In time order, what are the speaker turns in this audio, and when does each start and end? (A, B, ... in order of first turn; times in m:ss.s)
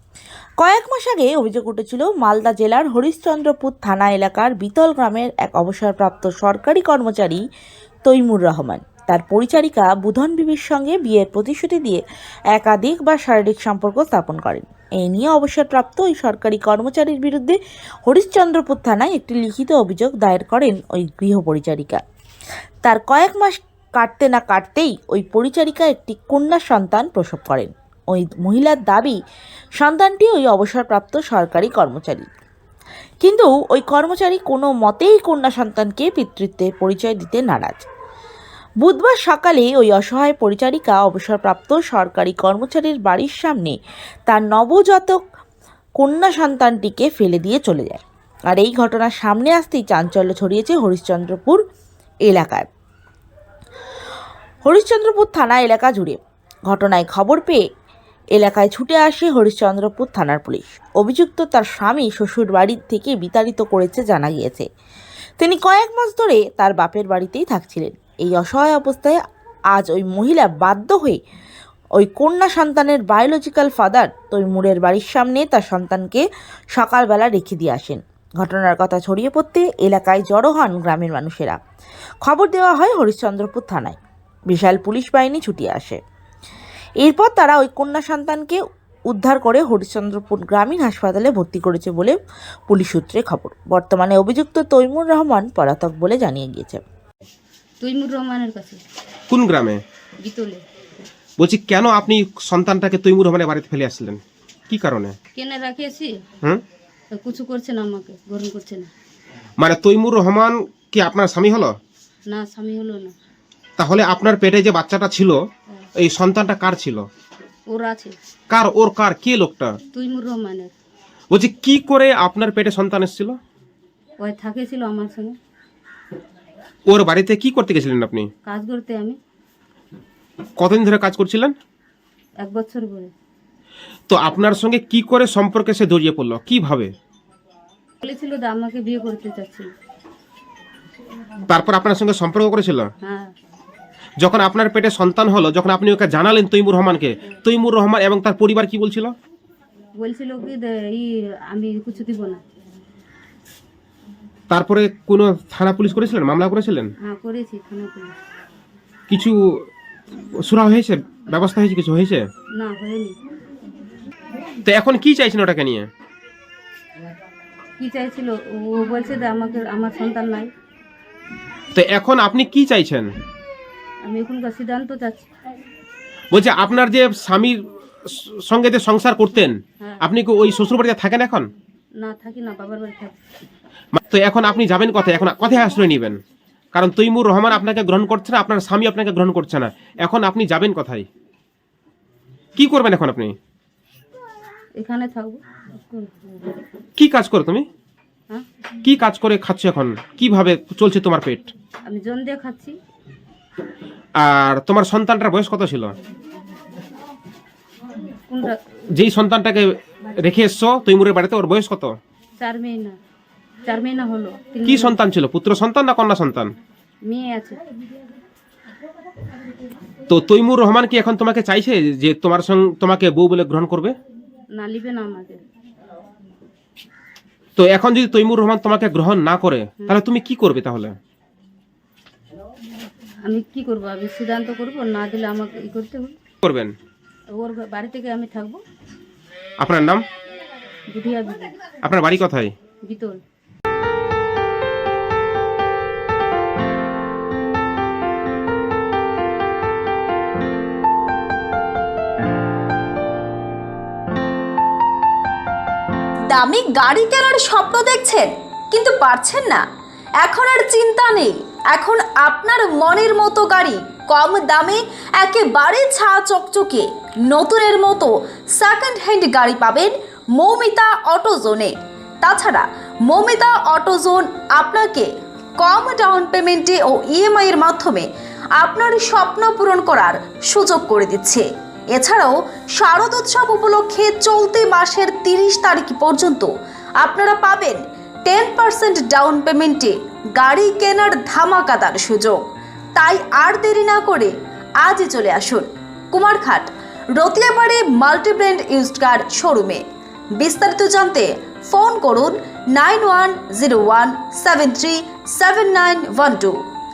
0:00.6-0:07.4 A
0:08.1-0:22.0 A
0:22.8-0:29.2 A
0:29.8-0:32.3 A
0:33.2-0:37.9 A
0:38.8-0:45.2 A
0:46.0-0:51.6 A
0:52.3-0:52.7 A
0:54.6-0:57.7 A
0:58.4-1:04.7 A
1:05.4-1:09.2 A
1:09.7-1:11.2 A
1:12.0-1:21.6 A
1:22.2-1:24.0 A
1:24.5-1:26.0 A
1:27.0-1:28.6 A
1:29.1-1:32.2 A
1:32.7-1:36.8 A
1:37.8-1:38.8 B
1:39.3-1:39.8 C
1:40.2-1:40.6 B
1:41.4-1:45.2 C
1:45.4-1:46.2 B
1:47.2-1:48.9 B
1:49.6-1:51.7 C
1:52.3-1:53.1 B
1:53.8-1:55.4 C
1:56.0-1:57.1 C
1:57.7-1:58.2 B
1:58.5-1:59.8 C
1:59.9-2:00.7 B
2:01.3-2:03.4 C
2:04.2-2:05.4 B
2:06.9-2:08.3 C
2:08.5-2:09.2 B
2:10.6-2:11.6 C
2:12.4-2:13.1 B
2:14.1-2:16.9 C
2:18.0-2:19.7 B
2:21.5-2:22.9 C
2:23.0-2:23.3 B
2:24.2-2:29.1 C
2:30.0-2:32.4 B
2:34.5-2:36.9 C
2:37.0-2:38.1 B
2:39.1-2:39.4 C
2:40.4-2:42.3 C
2:42.6-2:43.2 B
2:44.6-2:45.9 C
2:47.8-2:50.5 B
2:51.7-2:53.1 C
2:54.0-2:55.3 B
2:56.3-3:01.5 C
3:02.0-3:03.1 B
3:03.9-3:06.2 C
3:06.8-3:11.1 C
3:12.6-3:13.4 C
3:14.8-3:16.4 B
3:17.0-3:17.7 C
3:18.8-3:21.5 C
3:21.9-3:22.8 B
3:24.2-3:26.0 C
3:28.3-3:28.6 B
3:29.0-3:31.9 C
3:32.4-3:33.0 B
3:33.7-3:35.0 B
3:34.6-3:36.5 C
3:37.1-3:37.6 B
3:40.1-3:44.0 C
3:44.6-3:45.4 B
3:47.6-3:51.0 C
3:53.2-3:56.2 B
3:56.4-3:56.7 C
3:57.3-3:58.6 B
3:59.6-4:00.0 C
4:00.9-4:01.6 B
4:01.8-4:02.5 C
4:02.8-4:03.2 B
4:16.3-4:19.6 D
4:20.2-4:35.1 D
4:35.6-4:38.1 D
4:38.6-4:52.4 D
4:53.0-4:59.8 D
5:00.4-5:06.6 D